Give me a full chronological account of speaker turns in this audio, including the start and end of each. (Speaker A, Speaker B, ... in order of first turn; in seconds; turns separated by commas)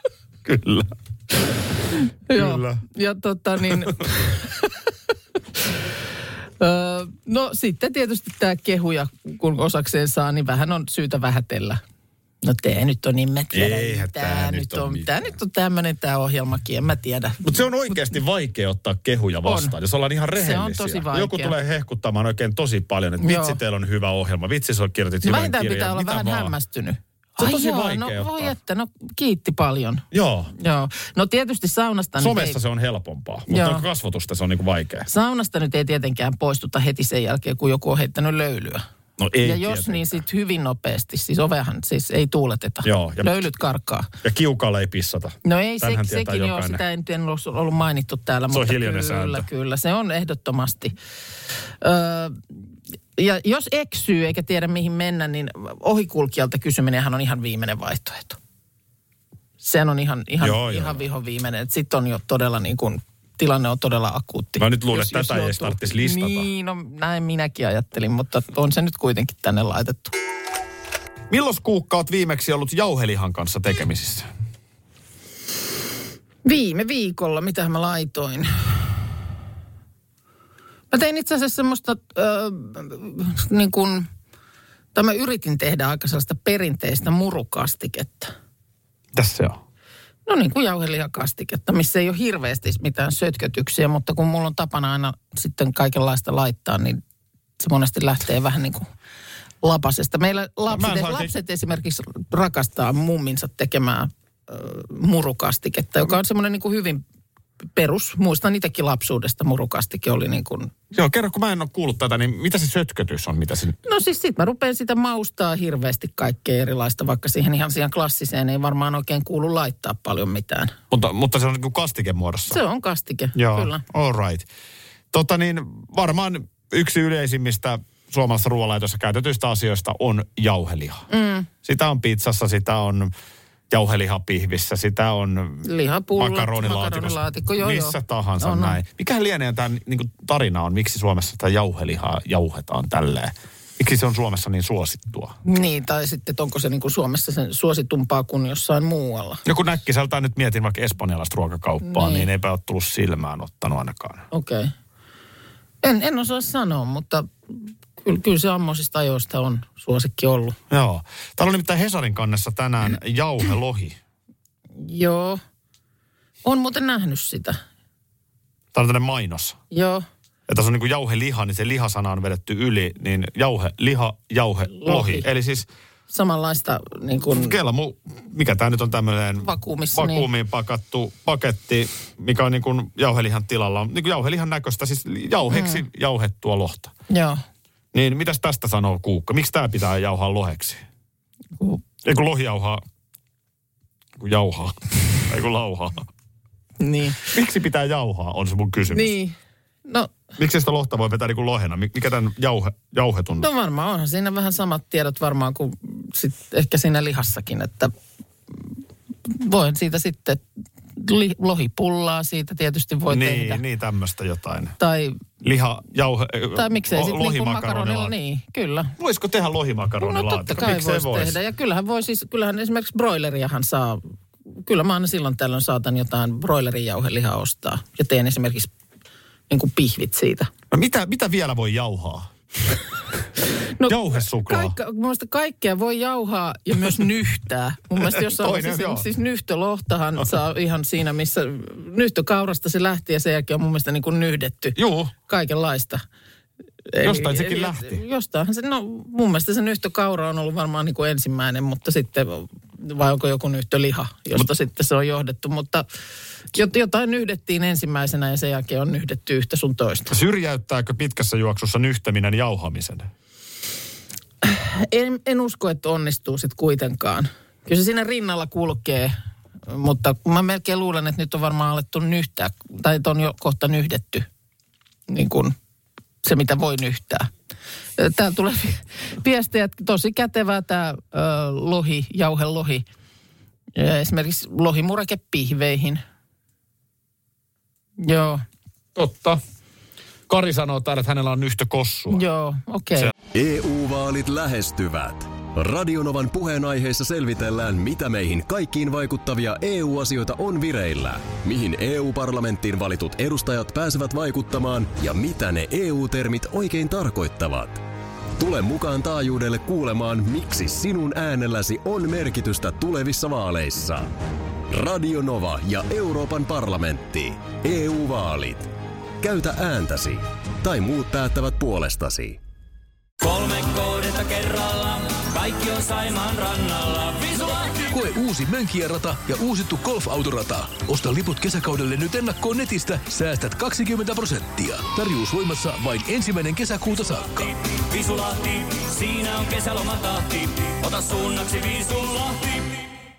Speaker A: 0.5-0.9, Speaker B: 2.3-4.7, Speaker A: 2.3-2.8, Speaker B: 6.6-11.8, Speaker B: 12.4-17.5, Speaker A: 13.5-15.3, Speaker A: 17.4-26.5, Speaker B: 19.4-19.8, Speaker B: 20.4-21.5, Speaker B: 23.2-23.6, Speaker B: 25.2-30.0, Speaker A: 27.4-28.6, Speaker A: 30.1-30.5, Speaker B: 30.6-32.6, Speaker A: 32.2-35.1, Speaker B: 33.5-33.9, Speaker B: 35.1-38.9, Speaker A: 39.2-40.2, Speaker B: 39.4-44.1, Speaker A: 42.8-43.4, Speaker A: 44.2-46.8, Speaker B: 45.5-51.0, Speaker A: 48.5-49.5, Speaker B: 51.8-52.4, Speaker B: 53.2-58.4, Speaker B: 59.6-70.1, Speaker A: 60.4-61.0, Speaker A: 64.6-66.5, Speaker A: 71.3-74.3, Speaker B: 76.4-78.5, Speaker B: 80.9-84.1, Speaker B: 85.0-88.3, Speaker A: 89.1-89.6, Speaker B: 90.3-97.0, Speaker B: 97.6-98.9, Speaker B: 99.6-107.0, Speaker A: 100.7-101.3, Speaker B: 107.8-110.7, Speaker A: 110.9-113.8, Speaker B: 113.9-120.8, Speaker A: 120.9-122.6, Speaker B: 122.5-123.8, Speaker A: 123.3-124.5, Speaker A: 125.1-131.1, Speaker B: 131.1-131.5, Speaker A: 131.7-133.1, Speaker A: 133.7-145.4, Speaker B: 135.7-138.8, Speaker B: 145.4-149.4, Speaker A: 149.4-154.3, Speaker B: 151.8-152.3, Speaker B: 154.3-154.7, Speaker B: 155.8-160.6, Speaker A: 160.7-164.0, Speaker B: 164.8-165.4, Speaker B: 166.4-167.6, Speaker A: 168.7-169.6, Speaker B: 169.7-170.1, Speaker A: 170.5-175.7, Speaker B: 174.7-175.3, Speaker B: 176.1-177.6, Speaker A: 177.3-186.9, Speaker B: 179.4-180.3, Speaker B: 185.5-185.8, Speaker B: 187.1-187.4, Speaker A: 187.9-190.8, Speaker A: 192.0-192.8, Speaker A: 194.2-196.1, Speaker B: 196.8-197.3, Speaker A: 197.3-199.2, Speaker B: 198.9-199.4, Speaker B: 199.9-200.1, Speaker A: 200.4-203.5, Speaker B: 203.4-207.9, Speaker B: 209.3-210.4, Speaker B: 210.9-213.6, Speaker A: 213.1-214.8, Speaker B: 214.8-215.2, Speaker A: 215.4-218.1, Speaker B: 216.6-218.9, Speaker A: 219.0-221.4, Speaker B: 220.0-228.7, Speaker B: 229.5-230.5, Speaker A: 230.7-232.3, Speaker B: 233.8-246.0, Speaker A: 233.9-234.8, Speaker A: 238.0-239.1, Speaker A: 244.8-245.1, Speaker B: 246.9-255.9, Speaker A: 247.0-248.0, Speaker B: 256.5-260.1, Speaker A: 260.1-263.1, Speaker B: 264.4-269.1, Speaker B: 269.7-274.3, Speaker B: 275.1-275.6, Speaker B: 276.2-277.3, Speaker B: 278.0-282.9, Speaker B: 283.8-286.0, Speaker B: 288.0-288.4, Speaker A: 288.9-289.4, Speaker A: 290.3-292.2, Speaker B: 292.1-293.1, Speaker C: 293.3-307.8, Speaker C: 308.4-314.1, Speaker C: 314.7-322.4, Speaker D: 323.2-327.9, Speaker E: 327.9-337.5, Speaker D: 337.4-342.9